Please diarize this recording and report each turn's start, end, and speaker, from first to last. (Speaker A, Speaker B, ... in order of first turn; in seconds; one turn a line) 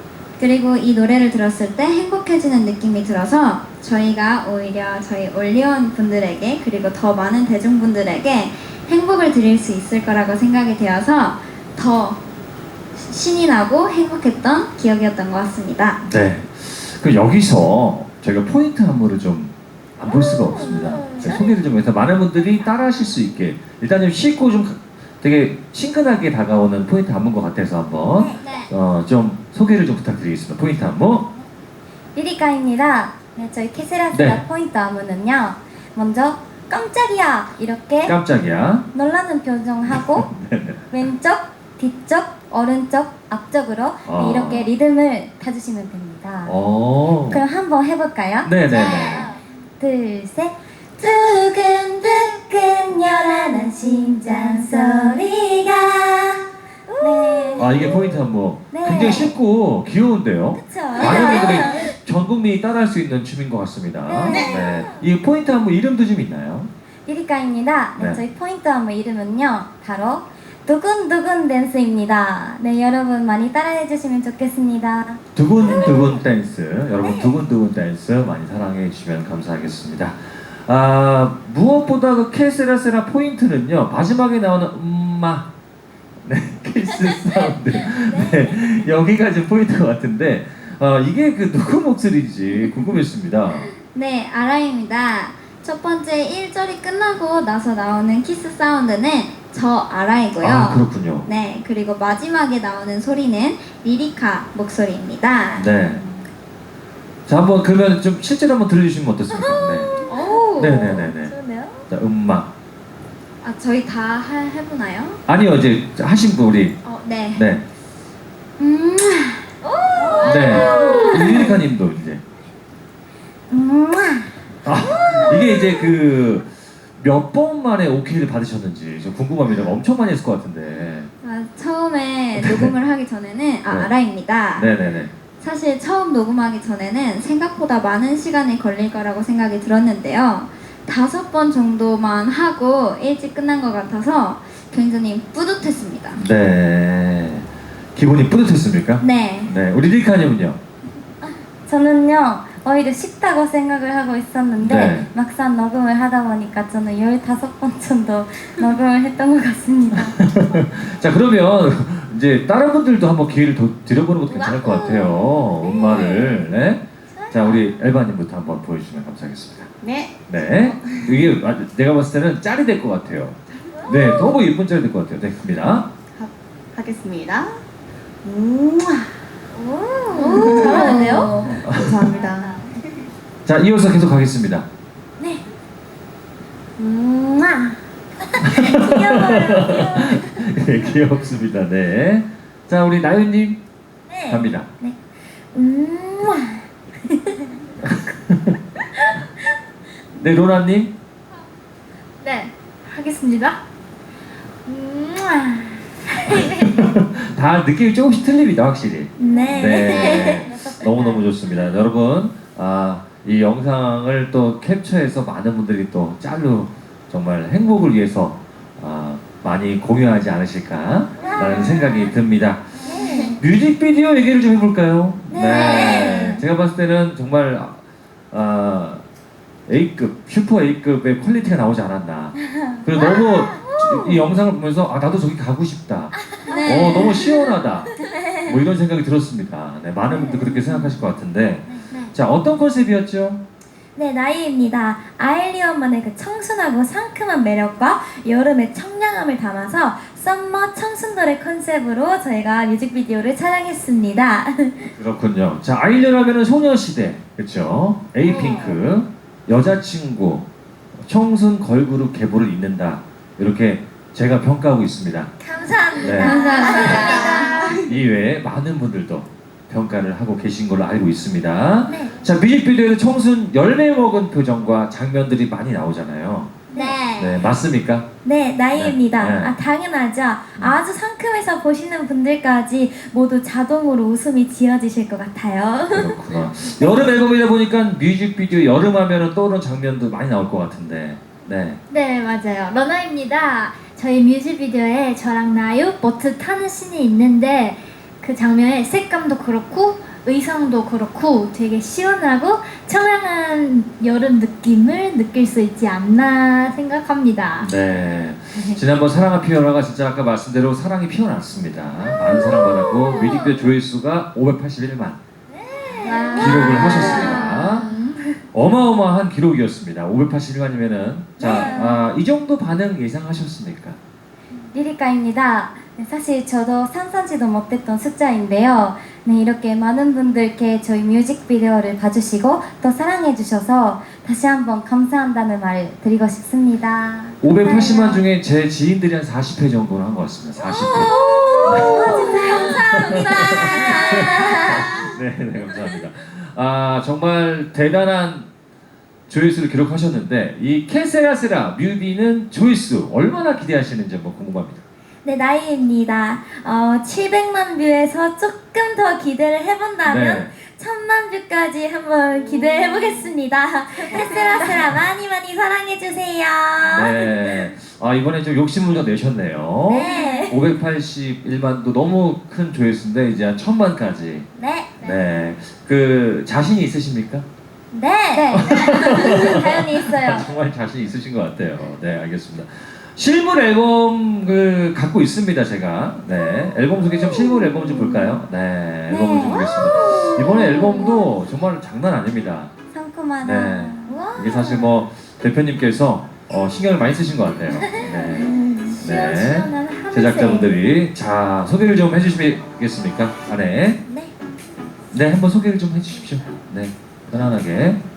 Speaker A: 0.4-12.2
Speaker A: 13.0-16.0
Speaker B: 16.0-31.3
Speaker C: 20.2-21.4
Speaker C: 28.2-28.5
Speaker A: 28.4-28.7
Speaker C: 32.1-38.2
Speaker B: 34.1-34.4
Speaker B: 38.0-38.9
Speaker C: 38.9-40.3
Speaker B: 39.9-40.8
Speaker C: 40.9-46.6
Speaker B: 44.1-44.7
Speaker B: 46.5-47.4
Speaker C: 47.3-49.1
Speaker B: 48.4-49.3
Speaker A: 48.7-49.4
Speaker C: 49.8-58.0
Speaker B: 57.6-66.7
Speaker C: 58.7-59.4
Speaker C: 60.5-61.9
Speaker C: 64.1-65.0
Speaker A: 64.3-64.6
Speaker C: 67.1-76.2
Speaker B: 68.0-68.2
Speaker B: 75.3-85.5
Speaker C: 77.0-77.3
Speaker B: 86.2-93.7
Speaker C: 88.1-88.4
Speaker A: 93.9-106.2
Speaker B: 100.4-101.3
Speaker B: 105.6-106.0
Speaker B: 107.3-110.0
Speaker A: 110.1-111.1
Speaker B: 110.6-111.3
Speaker C: 111.2-111.8
Speaker B: 111.9-112.5
Speaker A: 113.4-115.2
Speaker B: 115.3-116.8
Speaker A: 116.8-117.5
Speaker B: 117.3-117.6
Speaker A: 118.6-121.6
Speaker C: 120.0-121.5
Speaker D: 120.1-121.1
Speaker B: 120.2-122.2
Speaker C: 123.5-123.8
Speaker A: 123.5-124.3
Speaker B: 124.6-126.5
Speaker A: 124.8-125.8
Speaker B: 127.0-131.1
Speaker A: 131.2-134.7
Speaker B: 132.3-132.8
Speaker B: 134.6-135.1
Speaker A: 135.4-146.2
Speaker B: 146.2-150.6
Speaker A: 149.0-149.5
Speaker C: 151.2-160.2
Speaker B: 154.6-155.1
Speaker B: 160.0-169.7
Speaker C: 164.3-166.3
Speaker C: 167.1-167.7
Speaker E: 169.8-171.3
Speaker B: 170.3-175.9
Speaker C: 173.9-174.3
Speaker E: 176.1-177.6
Speaker E: 178.2-179.1
Speaker C: 179.6-181.6
Speaker D: 180.2-181.6
Speaker E: 180.2-182.7
Speaker A: 180.8-181.1
Speaker B: 181.6-182.1
Speaker B: 183.5-184.7
Speaker C: 186.8-190.5
Speaker B: 188.4-193.6
Speaker C: 194.1-195.0
Speaker B: 194.3-194.7
Speaker C: 195.5-197.5
Speaker B: 197.8-198.6
Speaker B: 200.2-200.9
Speaker D: 202.2-203.6
Speaker D: 204.7-206.7
Speaker B: 206.3-222.7
Speaker C: 209.2-211.3
Speaker C: 221.2-222.1
Speaker C: 222.8-223.4
Speaker A: 222.9-223.3
Speaker B: 223.4-227.8
Speaker C: 225.3-226.4
Speaker A: 225.5-226.2
Speaker B: 228.3-229.0
Speaker B: 229.7-237.9
Speaker C: 232.6-234.4
Speaker C: 236.4-238.6
Speaker A: 236.5-237.0
Speaker B: 238.5-243.4
Speaker C: 240.1-241.0
Speaker C: 241.7-242.0
Speaker C: 244.0-254.9
Speaker B: 255.0-265.3
Speaker C: 258.3-258.6
Speaker A: 258.3-258.7
Speaker C: 265.4-267.7
Speaker B: 266.0-266.4
Speaker D: 266.0-267.6
Speaker A: 266.1-267.7
Speaker E: 266.7-267.8
Speaker B: 267.8-276.5
Speaker C: 271.9-272.1
Speaker C: 276.7-277.0
Speaker A: 276.7-277.5
Speaker B: 277.2-278.1
Speaker C: 278.2-286.2
Speaker B: 278.8-279.6
Speaker B: 285.9-291.8
Speaker D: 291.9-307.7
Speaker B: 307.6-315.2
Speaker C: 312.2-313.6
Speaker C: 315.6-318.2
Speaker D: 316.0-317.5
Speaker A: 316.0-318.2
Speaker B: 316.4-317.9
Speaker B: 318.5-324.0
Speaker C: 321.4-322.1
Speaker C: 324.7-338.2
Speaker B: 337.4-348.5
Speaker C: 340.7-344.9
Speaker D: 341.1-342.8
Speaker B: 349.3-354.8
Speaker C: 355.2-367.7
Speaker B: 360.1-360.5
Speaker E: 364.2-364.5
Speaker B: 366.9-374.5
Speaker C: 369.9-370.6
Speaker C: 374.6-375.2
Speaker B: 375.0-377.4
Speaker C: 377.9-380.5
Speaker A: 378.3-379.6
Speaker B: 378.5-392.7
Speaker C: 387.3-388.1
Speaker C: 389.1-391.1
Speaker A: 389.5-389.7
Speaker A: 390.4-390.8
Speaker C: 392.9-395.0
Speaker B: 393.4-404.0
Speaker C: 397.8-399.5
Speaker E: 398.4-398.9
Speaker D: 398.9-400.7
Speaker C: 404.1-404.3
Speaker B: 405.1-408.0